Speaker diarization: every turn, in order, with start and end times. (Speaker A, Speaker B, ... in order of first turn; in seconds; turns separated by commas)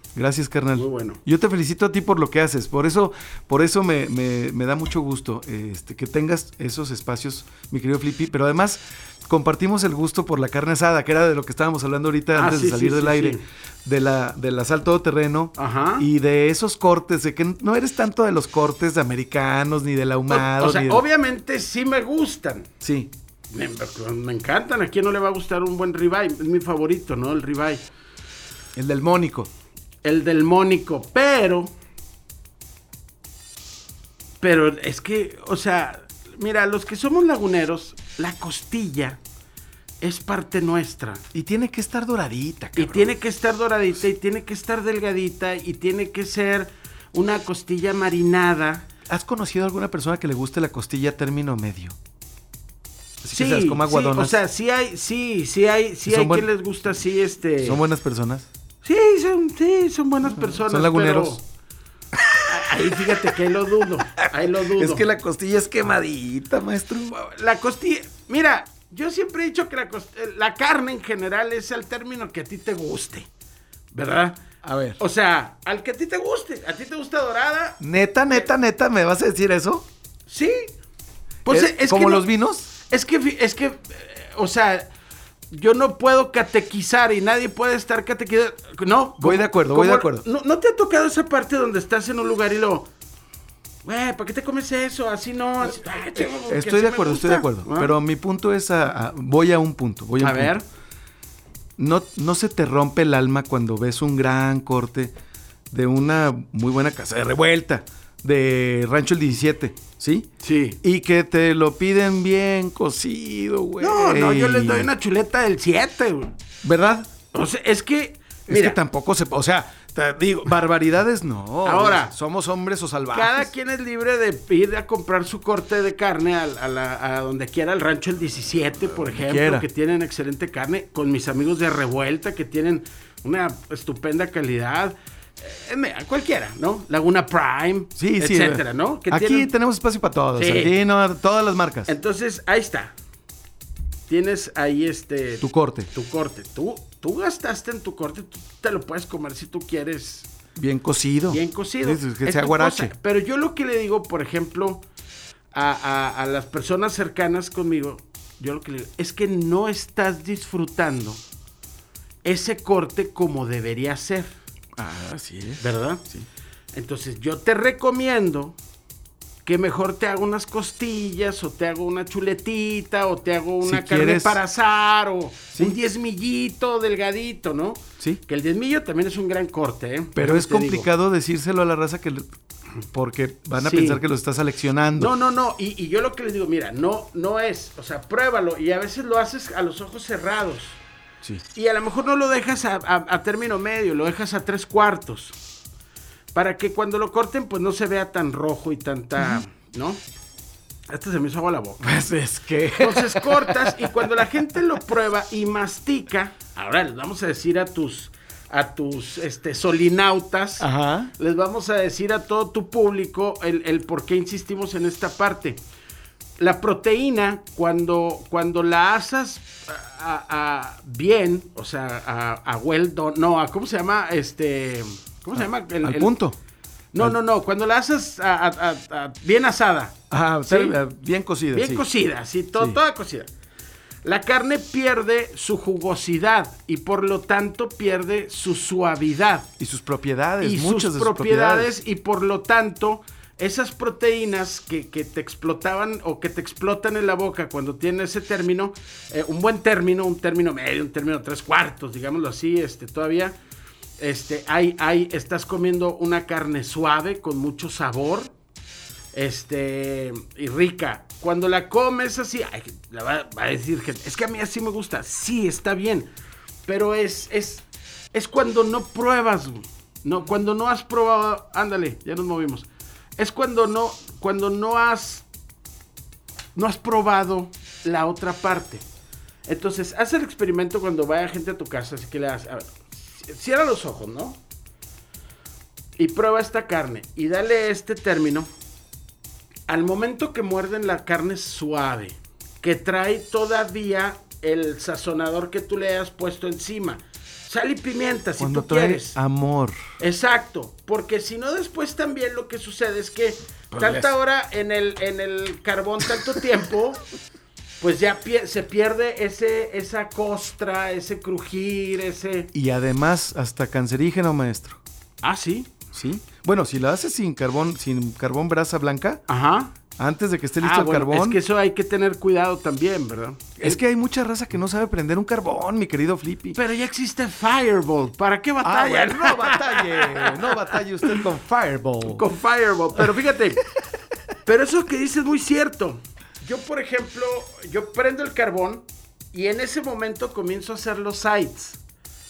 Speaker A: 0.1-21.0, Speaker B: 0.8-1.2, Speaker B: 12.3-13.4, Speaker B: 15.6-16.1, Speaker B: 20.3-22.7, Speaker A: 22.8-23.1, Speaker B: 23.5-27.9, Speaker A: 28.8-29.5, Speaker B: 30.0-31.7, Speaker B: 34.4-39.2, Speaker B: 40.0-41.2, Speaker A: 41.3-43.1, Speaker B: 42.8-48.9, Speaker A: 49.1-52.0, Speaker A: 53.2-54.4, Speaker B: 53.3-57.8, Speaker A: 56.1-56.5, Speaker A: 57.6-58.5, Speaker B: 58.8-61.4, Speaker A: 60.3-61.4, Speaker A: 62.2-63.1, Speaker B: 62.5-65.0, Speaker A: 64.4-67.2, Speaker B: 67.2-73.3, Speaker B: 73.9-74.4, Speaker A: 74.6-75.0, Speaker B: 75.0-77.8, Speaker A: 77.8-79.9, Speaker B: 80.3-80.8, Speaker B: 81.5-82.3, Speaker A: 81.5-82.7, Speaker B: 82.8-84.9, Speaker B: 85.5-92.9, Speaker A: 89.2-90.2, Speaker B: 93.8-98.0, Speaker A: 96.4-100.5, Speaker B: 100.2-100.7, Speaker A: 101.8-105.1, Speaker A: 105.7-110.3, Speaker B: 110.4-110.8, Speaker A: 110.8-114.9, Speaker B: 113.8-116.3, Speaker A: 116.6-117.1, Speaker B: 117.3-118.8, Speaker A: 118.5-123.5, Speaker B: 121.7-122.1, Speaker B: 123.1-139.5, Speaker A: 129.2-129.7, Speaker A: 138.0-141.9, Speaker B: 140.4-140.8, Speaker B: 141.9-142.9, Speaker B: 144.1-150.3, Speaker A: 145.4-145.9, Speaker A: 150.6-152.9, Speaker B: 151.3-154.8, Speaker B: 155.5-161.2, Speaker B: 162.2-164.3, Speaker A: 164.8-166.3, Speaker B: 165.6-166.1, Speaker B: 166.7-168.6, Speaker B: 169.4-180.9, Speaker A: 173.6-174.4, Speaker A: 180.2-182.3, Speaker A: 182.9-185.1, Speaker B: 183.6-184.0, Speaker B: 185.0-190.8, Speaker B: 191.5-195.4, Speaker B: 196.3-200.0, Speaker A: 199.2-199.4, Speaker B: 200.9-201.9, Speaker A: 201.8-204.2, Speaker B: 202.8-215.6, Speaker A: 210.6-211.1, Speaker B: 216.4-226.2, Speaker A: 225.4-226.4, Speaker B: 226.9-230.8, Speaker A: 230.1-231.8, Speaker B: 231.5-233.3, Speaker B: 234.0-239.5, Speaker A: 239.6-241.7, Speaker B: 240.4-253.4, Speaker B: 254.0-258.3, Speaker B: 259.1-266.1, Speaker B: 266.7-272.7, Speaker B: 273.2-275.3, Speaker B: 276.6-278.8, Speaker B: 279.5-284.4, Speaker B: 286.0-288.5, Speaker B: 289.7-299.2, Speaker A: 298.4-299.8, Speaker B: 300.0-307.0, Speaker A: 303.7-304.1, Speaker B: 307.8-312.5, Speaker A: 312.5-314.8, Speaker B: 315.2-315.8, Speaker A: 315.9-319.2, Speaker B: 319.3-319.8, Speaker A: 320.0-321.4, Speaker B: 320.6-323.8, Speaker A: 323.6-326.6, Speaker B: 326.6-331.2, Speaker A: 328.6-332.3, Speaker B: 332.0-333.6, Speaker B: 334.4-341.8